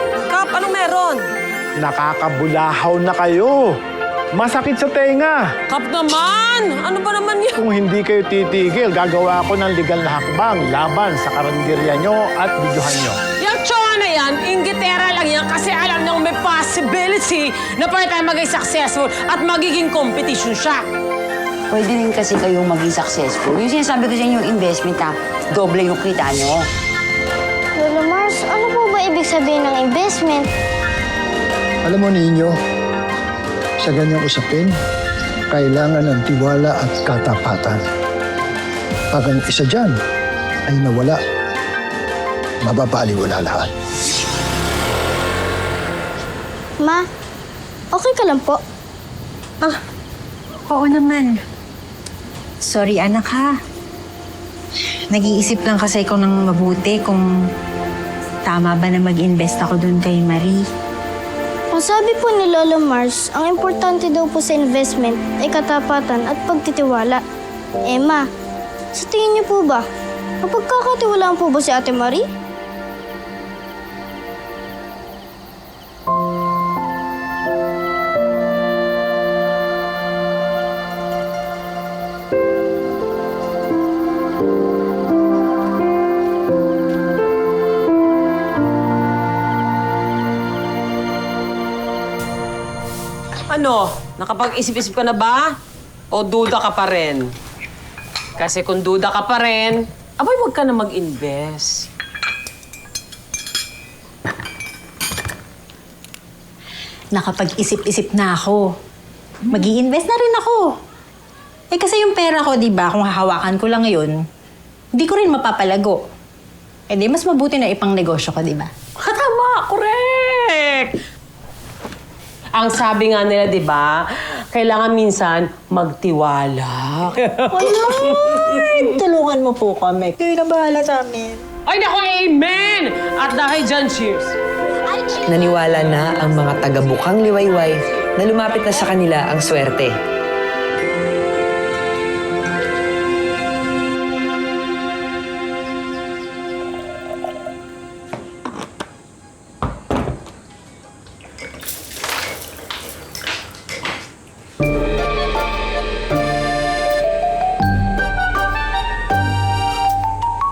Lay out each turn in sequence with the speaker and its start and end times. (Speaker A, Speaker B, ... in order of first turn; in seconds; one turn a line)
Speaker A: 0.3-0.9
Speaker B: 1.8-3.7
Speaker B: 4.4-5.5
Speaker A: 5.7-7.6
Speaker B: 7.6-13.2
Speaker A: 13.4-20.8
Speaker C: 21.7-26.6
Speaker D: 27.8-30.5
Speaker E: 31.9-32.5
Speaker E: 33.8-34.8
Speaker E: 35.5-37.8
Speaker E: 39.1-40.0
Speaker E: 40.7-41.2
Speaker E: 42.6-43.7
Speaker D: 46.8-47.0
Speaker D: 47.9-48.6
Speaker F: 50.7-51.4
Speaker F: 52.6-53.5
Speaker F: 55.1-57.3
Speaker F: 58.5-60.6
Speaker D: 61.7-67.2
Speaker D: 67.9-68.3
Speaker D: 68.9-69.9
Speaker D: 70.4-72.3
Speaker A: 93.5-95.5
Speaker A: 96.1-97.3
Speaker A: 98.4-101.9
Speaker F: 107.1-108.7
Speaker F: 109.5-110.7
Speaker F: 111.7-114.2
Speaker F: 115.0-116.0
Speaker F: 116.9-118.7
Speaker A: 119.0-120.9
Speaker A: 122.5-128.6
Speaker F: 127.5-131.4
Speaker A: 131.7-134.3
Speaker G: 135.3-139.9